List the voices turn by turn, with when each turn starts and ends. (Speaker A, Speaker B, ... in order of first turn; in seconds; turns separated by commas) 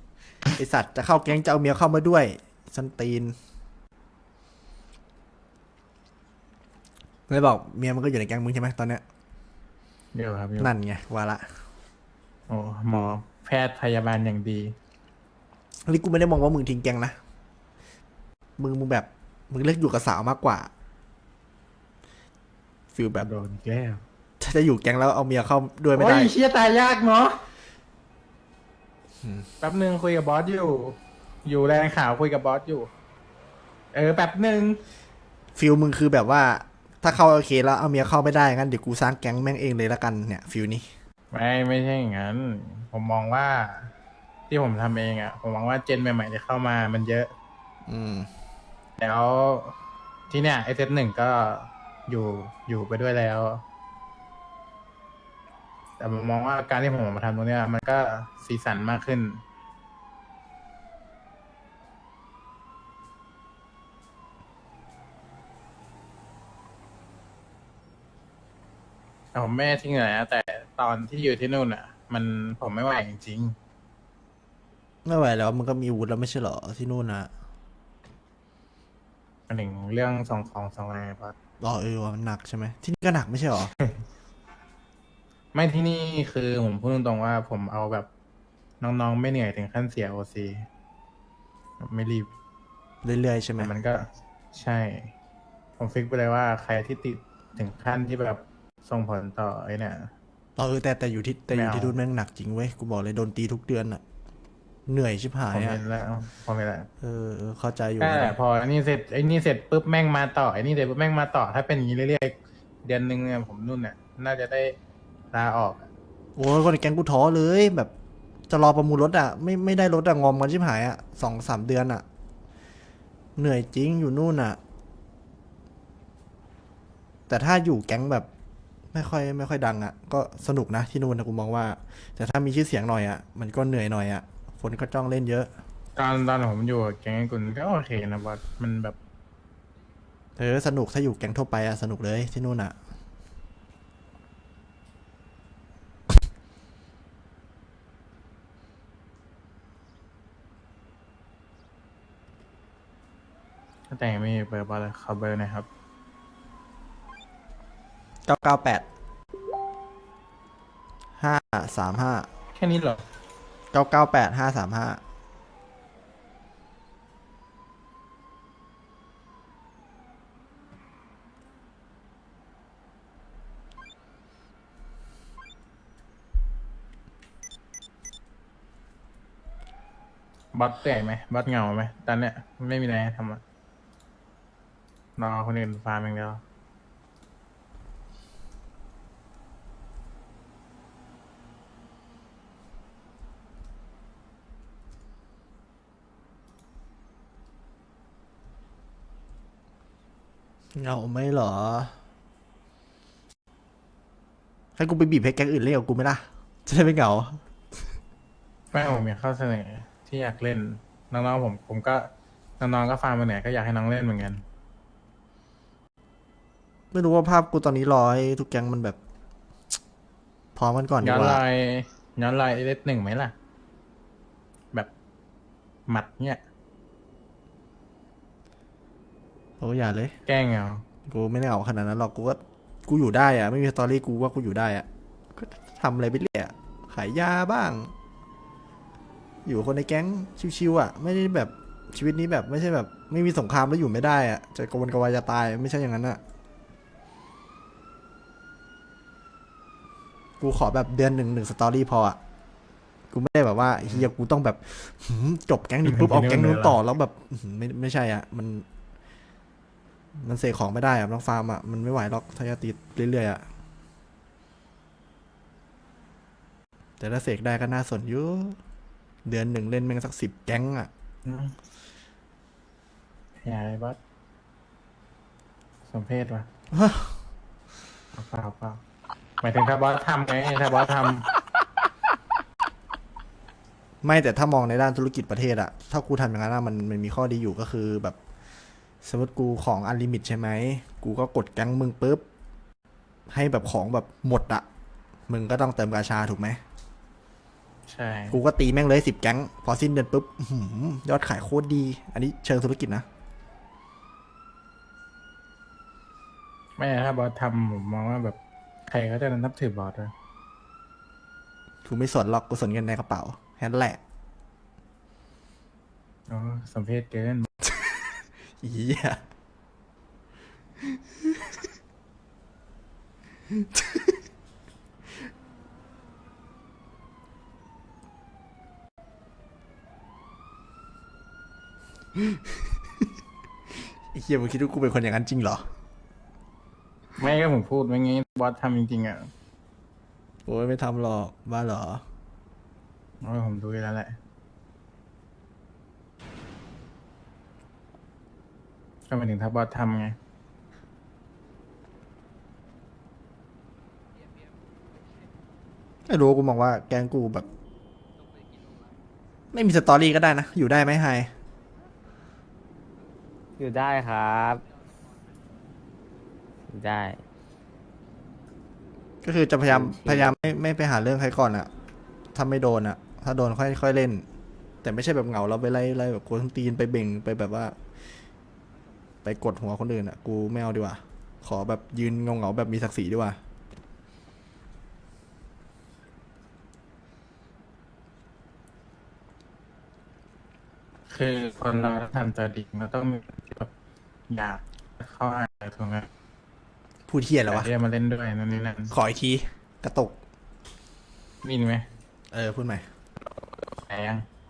Speaker A: 0.6-3.4, Speaker A: 7.3-9.0, Speaker B: 10.1-10.7, Speaker A: 10.6-11.5, Speaker B: 12.5-14.8, Speaker A: 15.9-17.1, Speaker A: 18.6-20.7, Speaker A: 22.9-23.3, Speaker B: 23.2-24.0, Speaker A: 24.4-26.3, Speaker B: 25.9-27.4, Speaker A: 29.2-29.5, Speaker B: 29.6-32.9, Speaker B: 33.9-34.8, Speaker A: 35.6-40.9, Speaker B: 41.3-43.9, Speaker B: 44.5-47.3, Speaker A: 47.9-48.3, Speaker B: 49.0-49.7, Speaker B: 50.3-53.6, Speaker B: 56.0-59.4, Speaker B: 69.3-73.5, Speaker A: 75.0-77.3, Speaker B: 79.5-81.3, Speaker A: 81.6-83.7, Speaker B: 85.5-88.1, Speaker B: 88.8-90.7, Speaker B: 91.8-92.3, Speaker A: 93.0-93.7, Speaker B: 93.6-94.0, Speaker B: 94.5-95.1, Speaker B: 95.8-100.1, Speaker A: 100.6-104.0, Speaker B: 101.5-102.0, Speaker A: 104.9-105.8, Speaker B: 105.5-106.9, Speaker A: 107.0-108.4, Speaker B: 108.0-114.8, Speaker B: 115.3-115.9, Speaker A: 116.4-117.9, Speaker A: 118.5-122.0, Speaker A: 123.4-124.6, Speaker A: 127.3-128.3, Speaker A: 128.9-135.5, Speaker B: 136.0-139.0, Speaker A: 140.4-142.8, Speaker B: 153.9-155.7, Speaker A: 158.3-158.8, Speaker A: 161.2-162.3, Speaker B: 162.6-163.0, Speaker A: 163.7-165.0, Speaker B: 180.5-183.4, Speaker B: 185.2-186.4, Speaker A: 200.8-201.9, Speaker A: 204.8-207.4, Speaker B: 208.7-212.1, Speaker B: 212.6-214.4, Speaker A: 216.9-219.0, Speaker A: 220.6-221.4, Speaker B: 221.0-223.3, Speaker B: 225.9-226.4, Speaker A: 229.6-230.1, Speaker B: 230.3-230.8, Speaker A: 231.1-237.9, Speaker A: 239.5-246.2, Speaker A: 250.4-252.2, Speaker A: 253.1-258.6, Speaker B: 253.8-254.1, Speaker B: 255.8-256.8, Speaker A: 260.2-263.4, Speaker A: 267.0-268.6, Speaker A: 269.3-270.9, Speaker B: 271.2-271.6, Speaker B: 273.4-274.0, Speaker B: 275.9-276.5, Speaker A: 276.7-277.2, Speaker B: 278.1-278.8, Speaker B: 279.4-281.3, Speaker A: 284.0-288.2, Speaker A: 289.0-292.2, Speaker A: 293.3-294.6, Speaker A: 295.3-296.6, Speaker B: 297.9-298.4, Speaker A: 298.3-303.1, Speaker B: 306.8-308.4, Speaker B: 308.9-310.1, Speaker A: 311.9-314.0, Speaker B: 316.3-317.5, Speaker A: 317.6-319.2, Speaker A: 320.8-321.7, Speaker A: 323.5-324.2, Speaker A: 334.1-335.7, Speaker B: 337.2-339.3, Speaker A: 340.5-342.0, Speaker B: 343.2-344.2, Speaker B: 349.1-350.2, Speaker A: 356.1-357.5, Speaker A: 359.5-361.3, Speaker C: 363.6-364.6, Speaker C: 366.7-367.2, Speaker A: 369.2-371.7, Speaker C: 369.7-370.3, Speaker A: 372.4-374.3, Speaker A: 374.8-377.8, Speaker A: 379.2-383.4, Speaker B: 391.1-393.7, Speaker B: 394.3-396.1, Speaker A: 397.1-397.7, Speaker B: 397.5-398.9, Speaker A: 398.9-400.2, Speaker B: 401.4-401.9, Speaker A: 402.3-402.8, Speaker B: 403.9-404.2